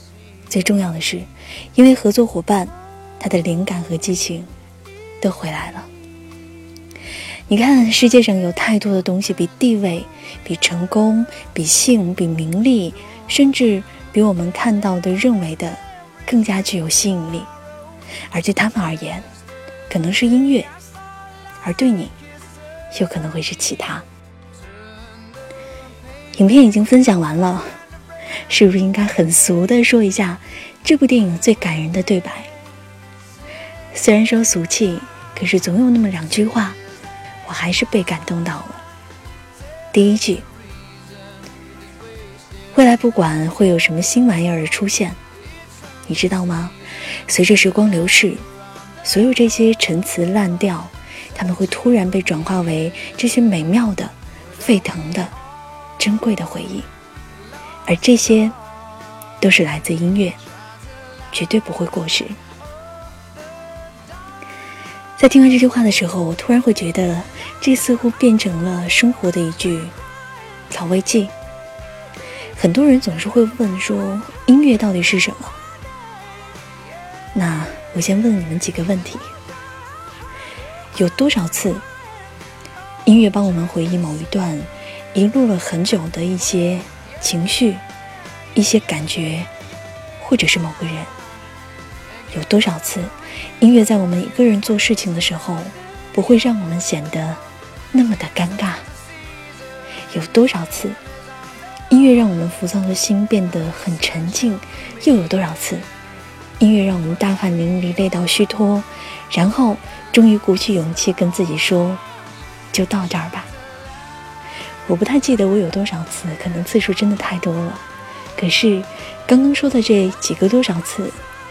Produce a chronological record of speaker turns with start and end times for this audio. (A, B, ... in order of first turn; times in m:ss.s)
0:00.5-0:04.5 A
0:05.2-0:05.9 A
0:07.5-0:17.5 A
0:18.3-0:19.2 A
0:19.9-0:20.7 A
0:21.6-0:22.2 A
0:22.9-0:24.0 A
0:26.4-0:27.8 A
0:28.5-0:32.5 A
0:33.9-0:36.8 A
0:37.4-0:38.8 A
0:39.9-0:40.4 A
0:42.7-0:45.2 A
0:46.0-0:46.8 A
0:47.3-0:48.4 A
0:49.0-0:55.4 A
0:56.0-0:56.9 A
0:57.9-0:58.6 A
0:59.4-1:00.4 A
1:01.3-1:02.4 A
1:05.2-1:10.0 A
1:10.7-1:11.3 A
1:12.6-1:15.6 A
1:17.3-1:19.3 A
1:20.9-1:21.8 A
1:23.1-1:27.8 A
1:28.6-1:29.5 A
1:30.2-1:31.1 A
1:32.3-1:38.9 A
1:40.1-1:41.0 A
1:41.9-1:45.9 A
1:46.6-1:52.0 A
1:52.7-1:53.5 A
1:54.8-1:57.8 A
1:58.4-2:01.2 A